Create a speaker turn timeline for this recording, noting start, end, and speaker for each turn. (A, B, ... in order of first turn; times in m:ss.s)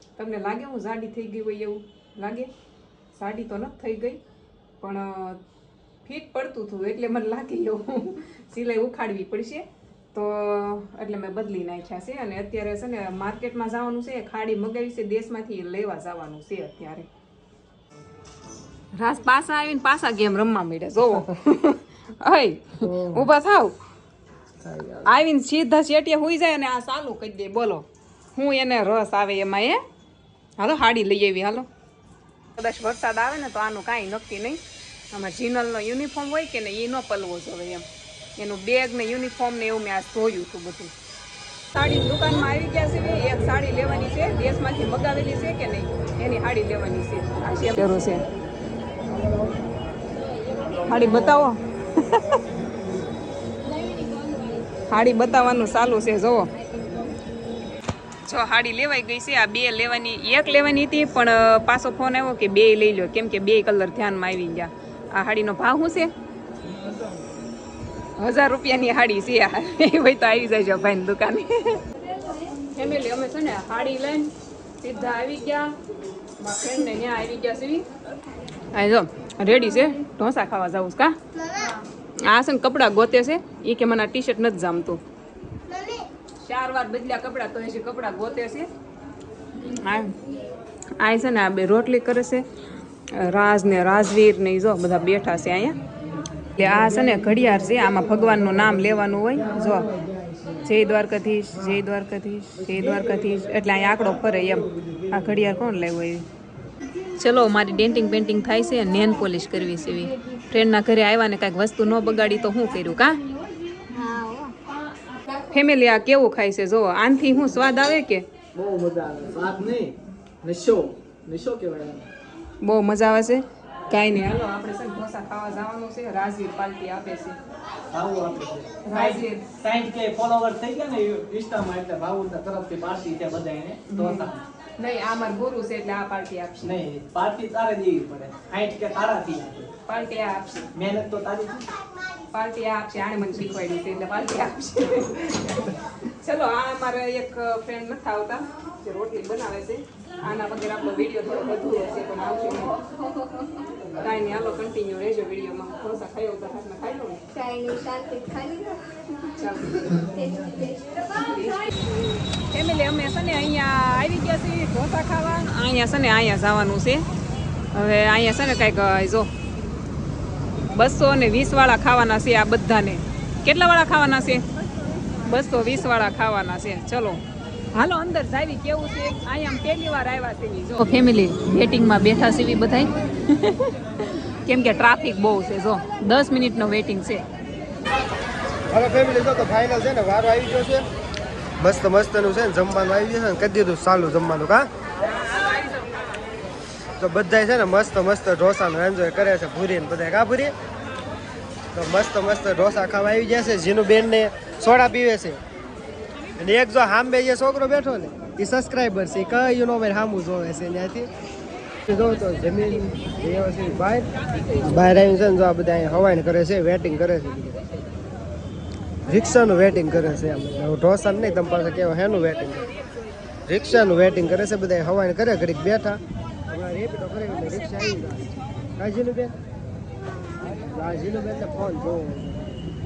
0:00.2-0:02.5 A
0:03.1-0:04.2 A
0:04.8-0:05.4 A
0:06.0-0:17.1 A
0:18.9-0:23.8 A
0:22.8-0:23.3 B
0:24.6-0:25.2 B
0:25.0-0:29.8 A
0:30.6-0:31.7 A
0:32.6-0:34.6 A
0:35.1-0:40.9 A
0:41.7-0:48.2 A
0:49.1-0:49.7 B
0:50.8-0:52.4 A
0:54.8-0:56.5 A
0:58.2-1:06.1 A
1:08.2-1:15.7 A
1:16.4-1:17.9 A
1:18.7-1:25.0 A
1:26.4-1:28.7 A
1:29.6-1:30.2 A
1:31.0-1:32.4 A
1:33.1-1:35.8 A
1:36.6-1:39.9 A
1:40.6-1:46.3 A
1:47.0-1:53.3 A
1:53.9-1:54.6 C
1:55.3-1:58.3 A
1:58.5-2:02.1 D
2:02.6-2:07.4 A
2:07.9-2:14.4 D
2:08.8-2:09.5 A
2:13.9-2:16.8 A
2:16.6-2:19.7 D
2:19.9-2:20.7 A
2:20.7-2:21.7 D
2:22.3-2:32.9 A
2:33.9-2:37.5 A
2:37.4-2:39.1 C
2:39.2-2:41.7 A
2:40.2-2:40.7 C
2:42.4-2:47.1 A
2:47.7-2:49.3 A
2:50.7-2:54.5 A
2:55.0-3:07.2 A
3:08.7-3:10.9 B
3:11.6-3:14.7 B
3:15.3-3:15.7 A
3:17.0-3:20.5 B
3:21.7-3:25.4 B
3:26.3-3:31.1 B
3:31.8-3:37.6 B
3:39.0-3:42.7 B
3:43.5-3:49.3 B
3:50.4-3:52.5 B